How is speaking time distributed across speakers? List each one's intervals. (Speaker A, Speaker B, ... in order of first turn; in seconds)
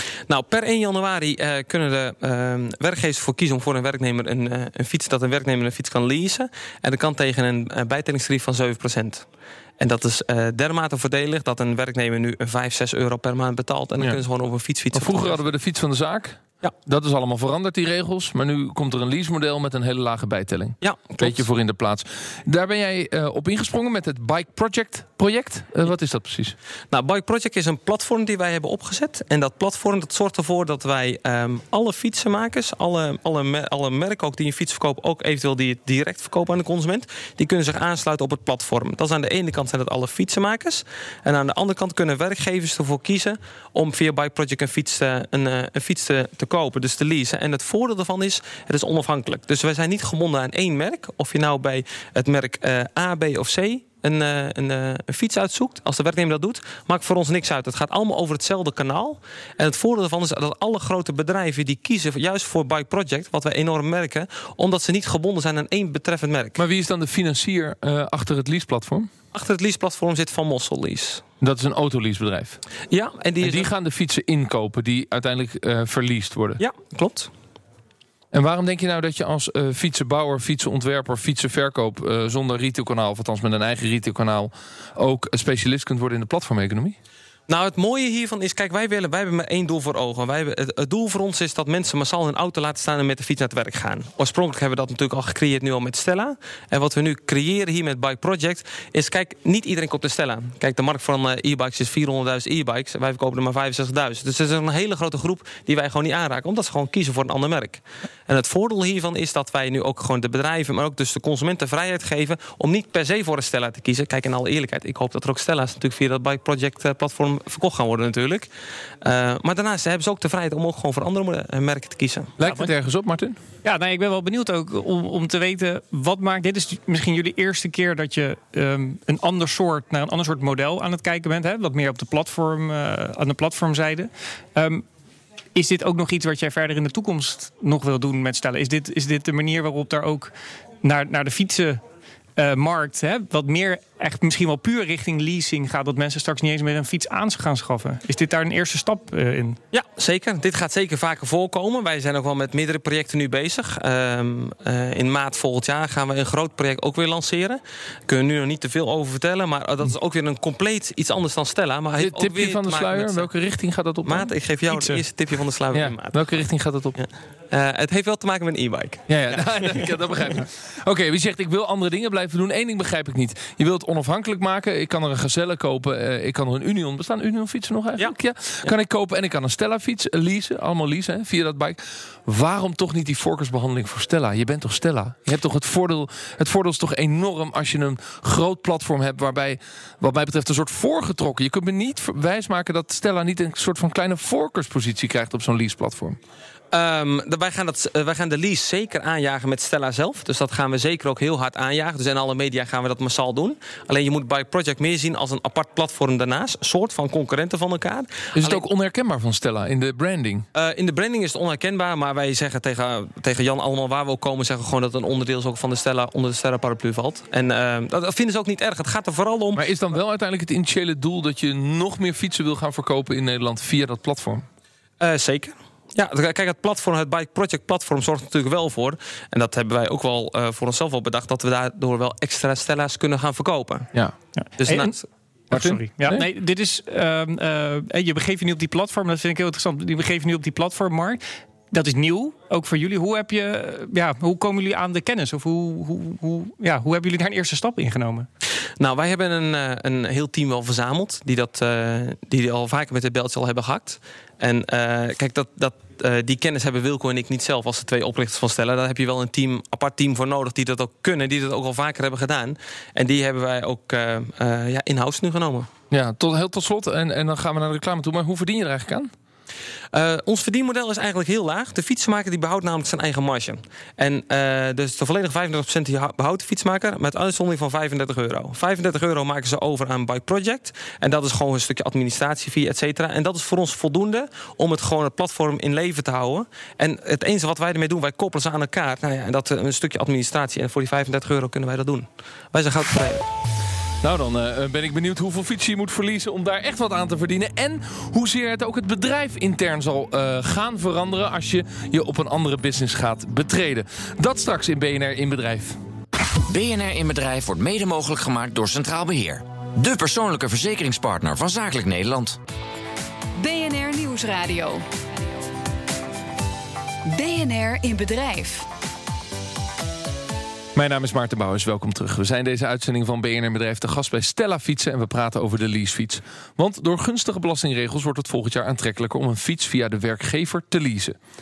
Speaker A: 0.3-9.2, 9.8-15.5, 20.8-21.4, 26.9-66.6, 69.3-71.2, 72.9-73.7, 76.6-77.3, 87.5-118.5, 119.0-122.3, 149.7-163.3, 164.0-166.4, 166.9-169.9, 178.0-178.7, 196.7-208.6, 210.5-219.7, 225.0-233.9, 234.6-235.1, 248.8-265.7, 269.9-293.2
Speaker B: 14.9-26.5, 66.6-69.1, 71.4-72.6, 73.4-76.6, 78.3-87.0, 122.4-123.4, 162.0-164.3, 165.7-167.0, 169.1-196.2, 208.3-210.4, 219.6-224.4, 235.5-236.3, 265.9-269.1, 294.0-305.8, 320.7-331.2
Speaker C: 122.5-122.7, 123.6-134.8, 135.5-140.3, 140.8-141.8, 142.4-149.6, 234.4-234.9, 235.5-248.3
Speaker D: 306.4-312.4
Speaker E: 313.4-314.9, 317.1-318.7